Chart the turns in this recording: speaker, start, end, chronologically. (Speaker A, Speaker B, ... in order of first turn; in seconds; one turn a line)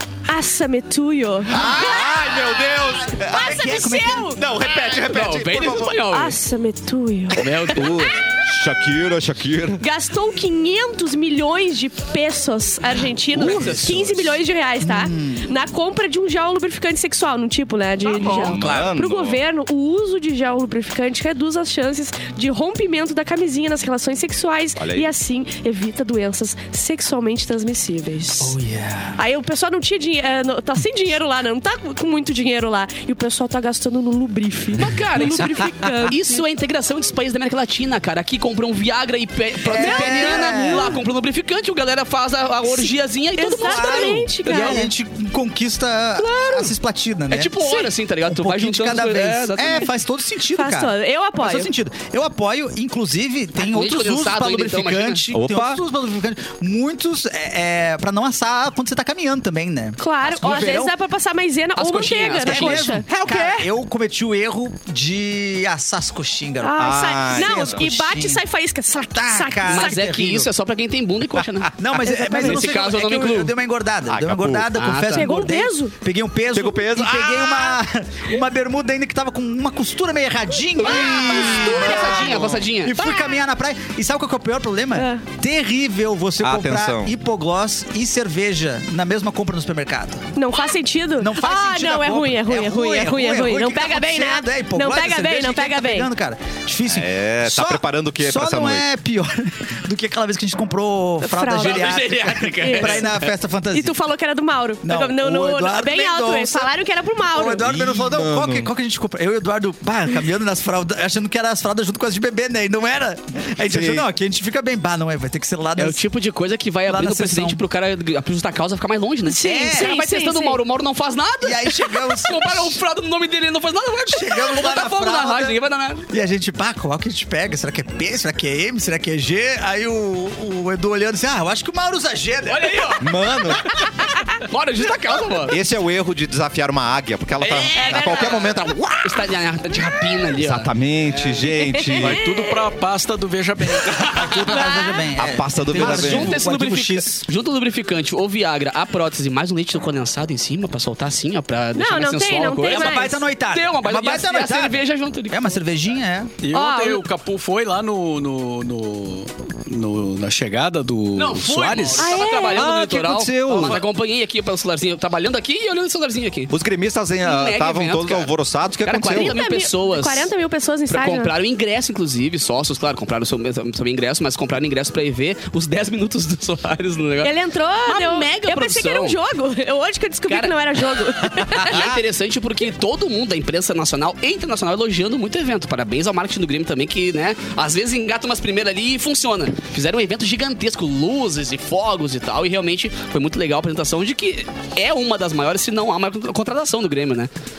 Speaker A: 0.3-2.0
Speaker B: 1.5-3.7
Speaker C: 1.6-2.0
Speaker A: 3.2-4.4
Speaker C: 3.2-4.4
Speaker B: 4.3-6.0
Speaker D: 4.8-6.3
Speaker A: 6.1-7.5
Speaker D: 7.4-8.1
Speaker B: 7.5-9.8
Speaker A: 9.8-28.6
Speaker D: 13.3-14.3
Speaker B: 13.5-14.0
Speaker C: 14.8-15.5
Speaker B: 18.2-19.4
Speaker D: 18.2-18.7
Speaker C: 18.3-18.9
Speaker B: 24.8-25.1
Speaker C: 28.4-29.2
Speaker A: 29.1-36.4
Speaker D: 34.8-44.9
Speaker C: 39.6-41.0
Speaker A: 39.7-41.0
Speaker A: 42.7-44.9
Speaker C: 43.6-47.6
Speaker A: 46.2-46.7
Speaker D: 47.3-49.9
Speaker A: 47.6-47.9
Speaker C: 48.2-60.9
Speaker A: 50.5-51.7
Speaker D: 53.6-55.2
Speaker B: 55.3-55.8
Speaker A: 60.0-63.7
Speaker D: 61.8-63.0
Speaker C: 62.4-68.4
Speaker A: 66.6-70.0
Speaker B: 66.8-67.9
Speaker C: 69.1-70.5
Speaker D: 69.7-73.5
Speaker C: 71.8-90.3
Speaker A: 72.0-72.7
Speaker B: 74.1-74.7
Speaker D: 74.7-75.3
Speaker A: 75.1-75.9
Speaker B: 76.5-77.8
Speaker D: 80.8-83.0
Speaker A: 80.8-82.2
Speaker B: 81.3-82.6
Speaker A: 83.0-83.4
Speaker A: 84.9-85.2
Speaker B: 86.4-87.1
Speaker A: 90.3-96.1
Speaker C: 91.2-104.0
Speaker B: 96.9-98.8
Speaker A: 101.2-102.0
Speaker D: 101.6-103.3
Speaker A: 102.6-103.1
Speaker A: 103.7-107.6
Speaker C: 104.8-106.7
Speaker C: 107.2-116.0
Speaker B: 107.6-108.7
Speaker B: 113.7-114.1
Speaker D: 115.8-126.0
Speaker C: 116.8-117.6
Speaker A: 119.3-120.6
Speaker C: 119.4-119.9
Speaker C: 121.4-122.8
Speaker C: 124.1-125.6
Speaker C: 126.1-133.0
Speaker D: 132.4-135.6
Speaker B: 133.0-133.7
Speaker B: 135.5-139.1
Speaker D: 137.4-141.6
Speaker A: 137.7-138.4
Speaker B: 140.3-142.2
Speaker A: 141.8-142.6
Speaker E: 141.9-144.5
Speaker C: 144.0-147.2
Speaker A: 144.5-145.0
Speaker B: 145.2-146.4
Speaker D: 145.7-155.6
Speaker A: 151.8-153.2
Speaker C: 152.7-156.3
Speaker E: 156.4-162.1
Speaker A: 156.5-157.0
Speaker D: 161.1-166.5
Speaker A: 162.0-162.7
Speaker B: 162.5-163.8
Speaker B: 166.5-169.3
Speaker D: 167.2-170.3
Speaker A: 169.1-171.3
Speaker D: 170.9-177.3
Speaker A: 177.2-181.9
Speaker D: 177.8-179.2
Speaker D: 180.3-197.3